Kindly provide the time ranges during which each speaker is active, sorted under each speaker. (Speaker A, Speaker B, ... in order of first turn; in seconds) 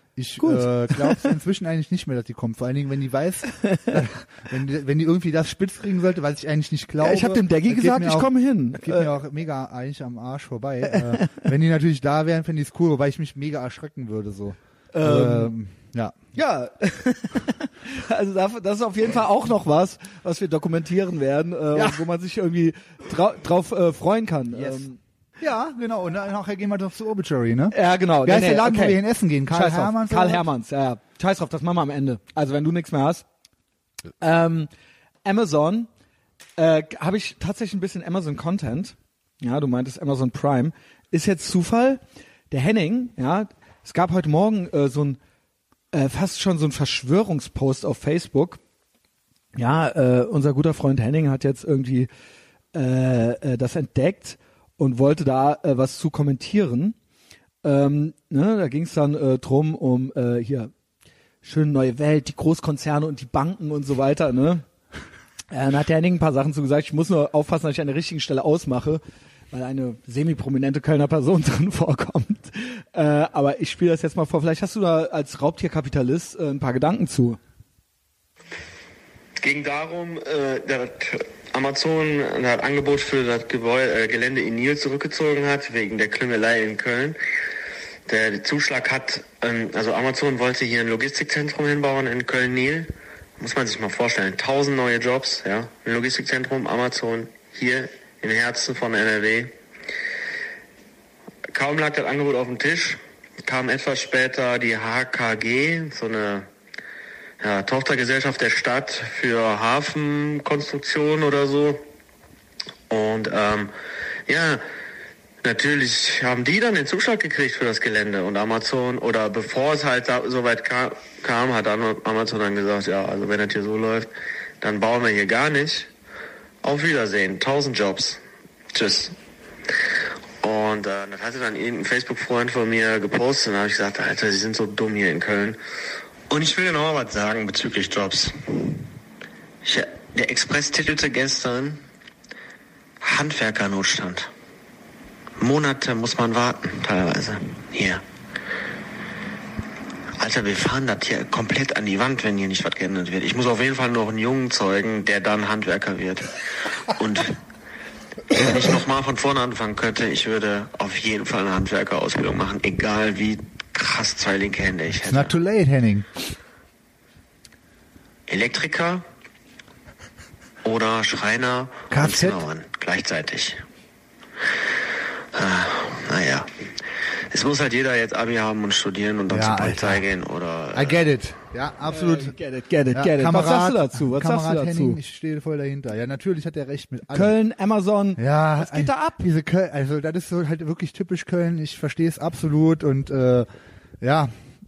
Speaker A: 0.2-16.2, 21.7-22.0, 24.6-24.8, 25.4-30.5, 165.0-166.1, 171.9-172.4, 179.3-180.1, 180.7-182.4, 182.9-187.3, 188.2-193.5, 194.0-194.3
Speaker B: 0.4-1.3, 3.6-3.9, 7.0-9.1, 10.9-11.4, 14.9-15.5, 16.4-25.0, 27.7-33.2, 34.2-34.7, 35.2-35.9, 36.6-45.2, 45.9-48.6, 49.6-52.1, 52.7-57.0, 57.6-60.7, 61.4-64.6, 65.5-77.4, 181.9-185.0, 187.1-189.2
Speaker C: 79.4-87.2, 88.1-99.5, 101.5-106.5, 107.4-111.8, 112.9-113.7, 114.3-114.6, 115.4-124.1, 124.6-125.9, 126.6-128.2, 128.7-129.2, 130.4-135.6, 136.3-138.8, 139.6-141.8, 143.0-144.3, 145.4-148.0, 150.2-157.4, 158.3-165.3, 168.3-169.0, 170.6-173.6, 175.3-176.5, 177.3-181.0